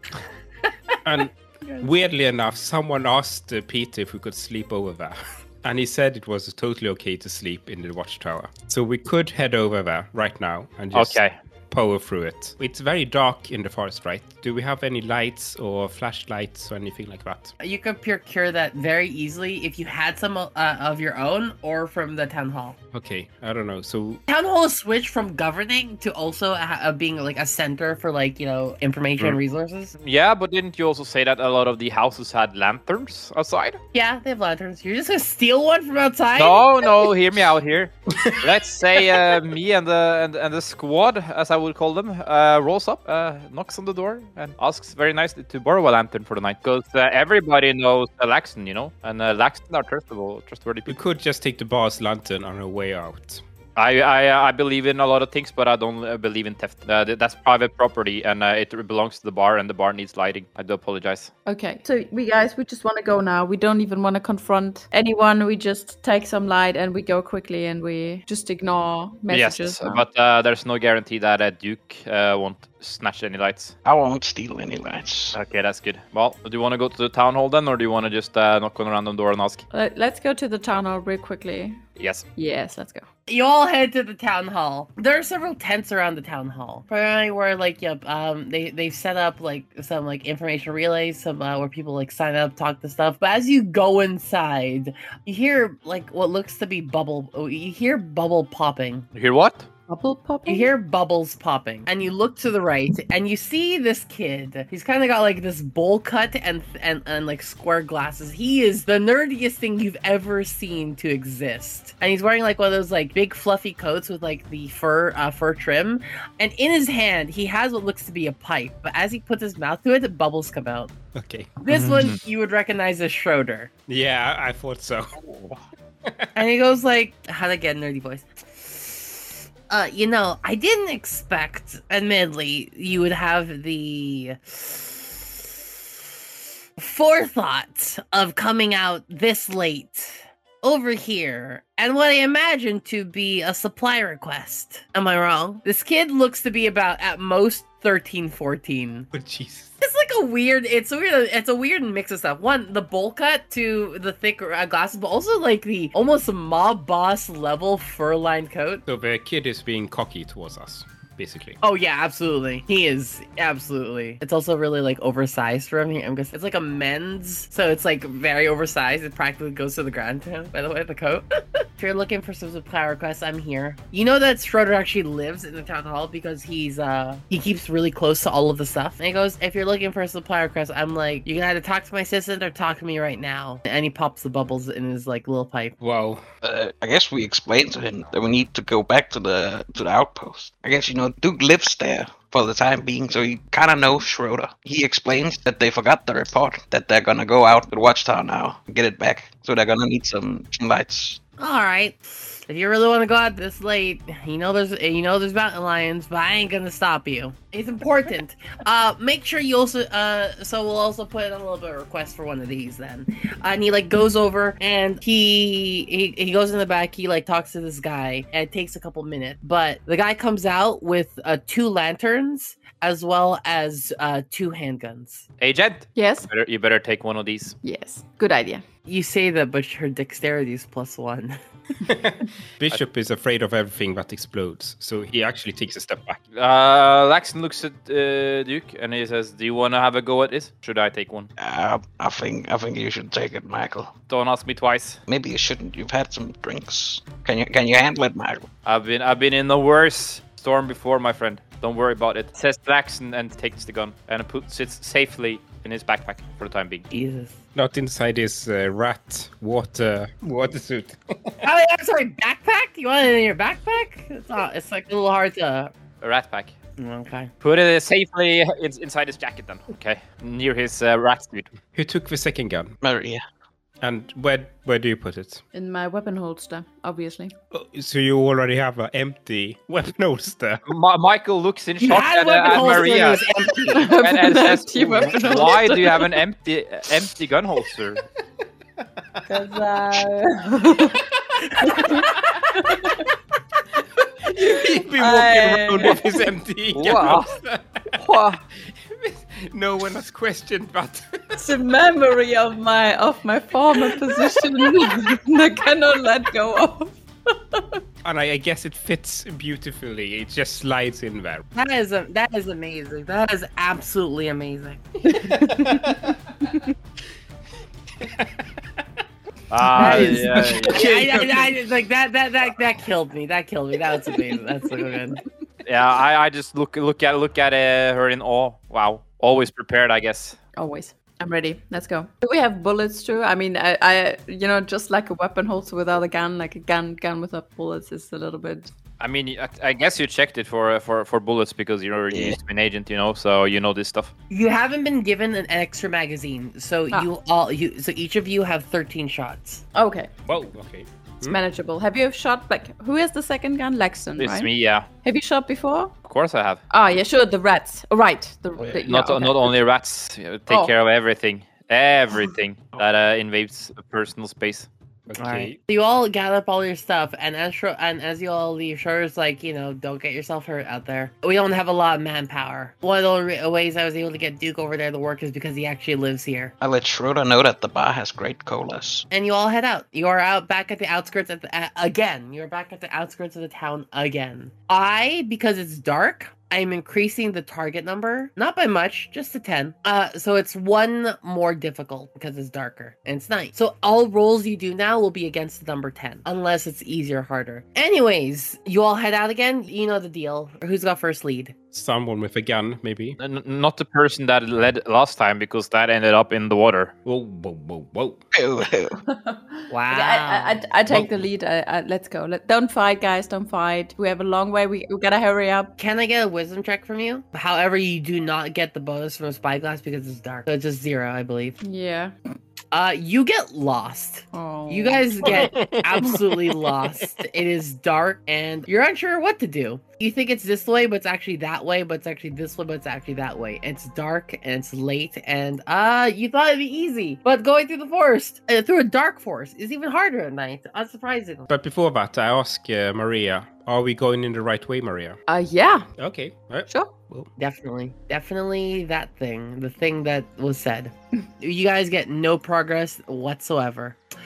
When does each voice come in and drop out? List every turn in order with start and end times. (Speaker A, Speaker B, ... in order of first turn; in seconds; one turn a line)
Speaker A: 1.1-17.5
Speaker B: 10.9-11.3
Speaker C: 17.6-22.8
Speaker A: 22.9-24.2
Speaker C: 24.3-29.9
Speaker B: 30.0-33.8
Speaker C: 33.9-37.1
Speaker B: 36.4-51.0
Speaker A: 50.9-53.4
Speaker B: 53.8-61.3
Speaker D: 61.5-70.0
Speaker B: 69.3-73.8
Speaker E: 73.8-75.4
Speaker B: 75.3-79.6
Speaker D: 79.7-81.8
Speaker B: 82.0-82.2
Speaker D: 82.4-83.0
Speaker C: 83.3-99.1
Speaker B: 99.2-99.7
Speaker D: 99.9-100.7
Speaker C: 100.5-120.9
Speaker A: 121.1-122.1
Speaker C: 121.6-123.7
Speaker B: 121.7-122.2
Speaker A: 123.9-126.3
Speaker C: 126.3-135.6
Speaker C: 136.8-149.1
Speaker A: 149.1-149.8
Speaker C: 149.8-158.8
Speaker A: 158.9-161.6
Speaker C: 161.6-185.8
Speaker A: 185.8-186.2
Speaker E: 186.4-201.2
Speaker C: 201.4-225.2
Speaker B: 225.4-227.6
Speaker D: 226.0-226.3
Speaker D: 227.6-228.6
Speaker C: 228.9-231.4
Speaker A: 231.9-236.2
Speaker B: 236.3-241.3
Speaker E: 241.4-243.9
Speaker B: 244.1-245.0
Speaker E: 245.1-248.5
Speaker B: 248.7-256.9
Speaker C: 256.9-257.4
Speaker A: 257.6-261.5
Speaker C: 261.4-265.7
Speaker B: 266.0-266.6
Speaker C: 266.8-267.3
Speaker B: 267.4-271.5
Speaker A: 271.7-272.8
Speaker E: 272.8-273.2
Speaker A: 273.8-275.4
Speaker D: 275.5-277.3
Speaker A: 277.5-280.6
Speaker B: 280.7-283.3
Speaker C: 281.8-283.9
Speaker D: 283.7-286.2
Speaker B: 283.8-288.0
Speaker D: 289.3-291.0
Speaker A: 290.9-292.9
Speaker D: 291.6-293.1
Speaker A: 294.2-298.0
Speaker D: 294.4-296.1
Speaker B: 296.7-297.3
Speaker D: 298.1-298.4
Speaker A: 298.7-301.5
Speaker D: 301.4-307.0
Speaker A: 303.9-304.9
Speaker A: 308.0-311.5
Speaker C: 311.6-315.8
Speaker A: 315.1-316.2
Speaker D: 315.2-315.7
Speaker A: 318.0-318.8
Speaker B: 319.5-320.9
Speaker A: 319.7-321.6
Speaker C: 319.8-325.2
Speaker B: 325.6-330.4
Speaker D: 330.6-338.7
Speaker B: 339.0-344.1
Speaker E: 342.1-342.4
Speaker C: 344.3-349.6
Speaker D: 349.8-350.1
Speaker A: 350.3-351.4
Speaker D: 351.3-354.5
Speaker B: 354.2-354.9
Speaker D: 355.0-355.9
Speaker B: 356.0-356.6
Speaker D: 356.7-359.6
Speaker B: 358.9-364.7
Speaker A: 365.1-365.6
Speaker C: 365.2-376.6
Speaker E: 376.6-379.1
Speaker C: 379.1-401.6
Speaker A: 401.7-403.2
Speaker B: 403.2-406.9
Speaker A: 407.1-408.2
Speaker E: 408.3-409.0
Speaker D: 409.1-415.8
Speaker C: 409.7-410.6
Speaker A: 410.9-411.2
Speaker C: 415.8-421.6
Speaker D: 421.6-422.1
Speaker C: 422.7-441.5
Speaker D: 424.3-425.4
Speaker A: 425.2-427.0
Speaker A: 441.5-445.2
Speaker D: 445.3-445.9
Speaker A: 446.0-447.3
Speaker C: 447.4-454.0